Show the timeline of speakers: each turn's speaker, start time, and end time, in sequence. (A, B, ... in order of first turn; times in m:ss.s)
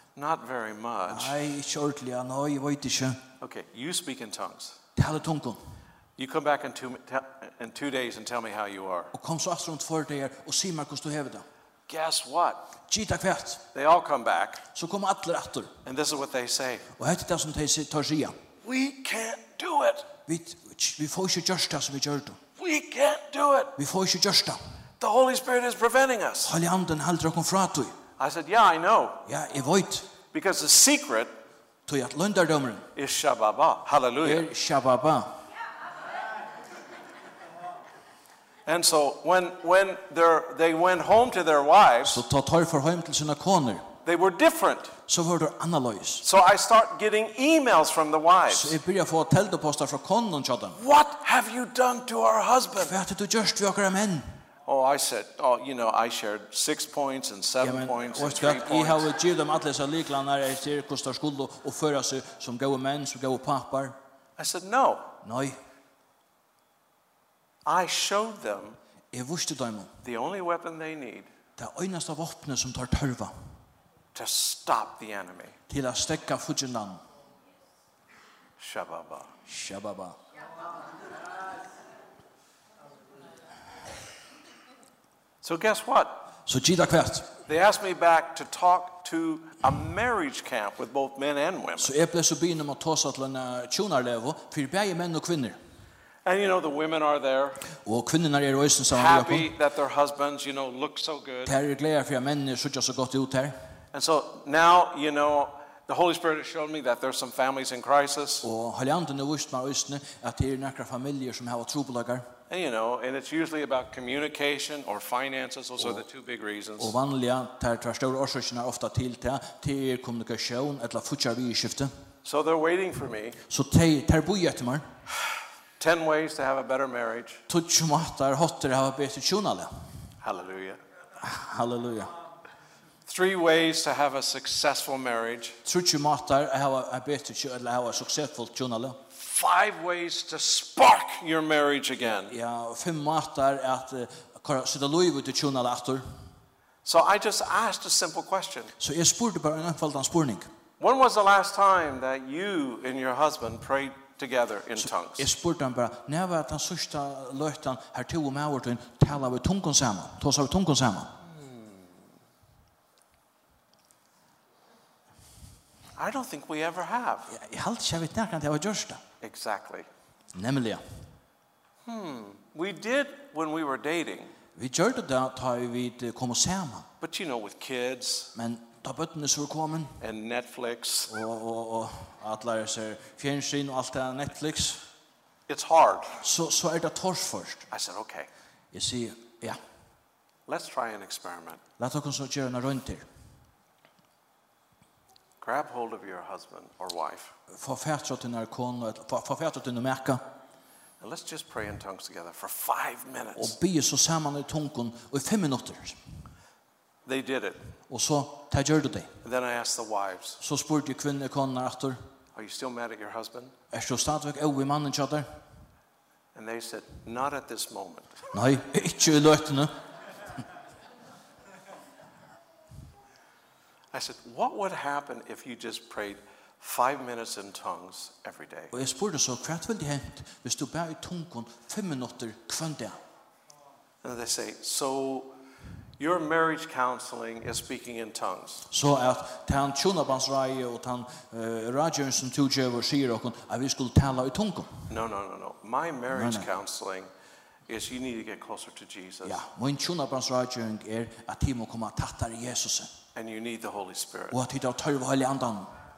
0:00.2-0:01.5 A
0:01.1-0:03.2 B
0:03.4-0:04.8 A
0:05.0-0:05.6 B
0:06.2-0:09.1 A
0:09.1-0:11.4 B
0:11.9-0:12.7 A
0:12.9-0:13.6 B
0:13.7-0:14.6 A
0:14.7-0:15.7 B
0:15.8-0:16.9 A
0:17.0-0:18.4 B
0:18.6-0:20.1 A
0:20.3-0:22.4 B
0:22.6-0:23.8 A
0:23.8-0:24.6 B
0:25.0-0:26.5 A
0:26.4-0:28.0 B
0:28.2-0:29.2 A
0:29.2-0:30.1 B
0:30.3-0:31.3 A
0:31.8-0:32.9 B
0:32.9-0:34.5 A
0:34.2-0:35.4 B
0:38.6-0:42.2 A
0:42.1-0:43.9 B
0:44.0-0:45.0 A
0:45.1-0:46.2 B
0:46.2-0:48.8 A
0:48.5-0:50.8 B
0:50.7-0:52.9 A
0:52.8-0:54.4 B
0:54.6-0:59.1 A
0:57.6-1:04.0 B
1:04.4-1:05.1 A
1:05.2-1:05.6 B
1:07.6-1:08.8 A
1:09.1-1:09.9 B
1:10.0-1:11.3 A
1:11.6-1:13.3 B
1:14.1-1:15.6 A
1:15.7-1:17.0 B
1:18.6-1:19.3 A
1:19.4-1:20.2 B
1:25.4-1:26.3 A
1:26.4-1:27.3 B
1:27.4-1:31.9 A
1:31.8-1:35.6 B
1:36.2-1:37.6 A
1:37.8-1:39.5 B
1:38.9-1:41.6 A
1:41.4-1:43.5 B
1:43.9-1:48.5 A
1:48.4-1:52.3 B
1:52.5-1:56.9 A
1:56.8-2:01.9 B
2:02.2-2:03.4 A
2:03.5-2:04.9 B
2:05.8-2:07.4 A
2:07.5-2:09.7 B
2:10.2-2:10.8 A
2:11.2-2:12.1 B
2:13.0-2:15.6 A
2:15.6-2:19.0 B
2:19.1-2:22.4 A
2:22.3-2:26.0 B
2:26.8-2:28.7 A
2:28.8-2:30.5 B
2:30.8-2:35.3 A
2:35.2-2:41.2 B
2:41.2-2:42.0 A
2:46.0-2:47.4 A
2:47.3-2:49.0 B
2:49.2-2:49.9 A
2:50.3-2:50.8 B
2:51.8-2:54.3 A
2:54.5-2:56.9 B
2:57.0-2:58.3 A
2:58.3-3:00.0 B
3:00.0-3:01.2 A
3:01.1-3:04.8 B
3:05.5-3:06.2 A
3:06.2-3:07.6 B
3:07.7-3:08.3 A
3:08.7-3:09.6 B
3:10.5-3:11.6 A
3:11.8-3:13.0 B
3:15.4-3:17.3 A
3:17.5-3:20.2 B
3:21.0-3:23.5 A
3:23.4-3:26.0 B
3:27.0-3:27.7 A
3:27.9-3:29.1 B
3:29.2-3:30.4 A
3:30.4-3:32.0 B
3:32.3-3:33.5 A
3:33.7-3:35.3 B
3:36.3-3:38.1 A
3:38.3-3:39.7 B
3:43.9-3:48.7 A
3:48.7-3:53.0 B
3:54.0-3:55.4 A
3:56.0-3:58.6 A
3:58.7-4:04.8 B
4:04.9-4:07.1 A
4:06.1-4:06.5 B
4:07.7-4:09.4 A
4:09.2-4:12.9 B
4:13.1-4:14.4 A
4:14.3-4:15.7 B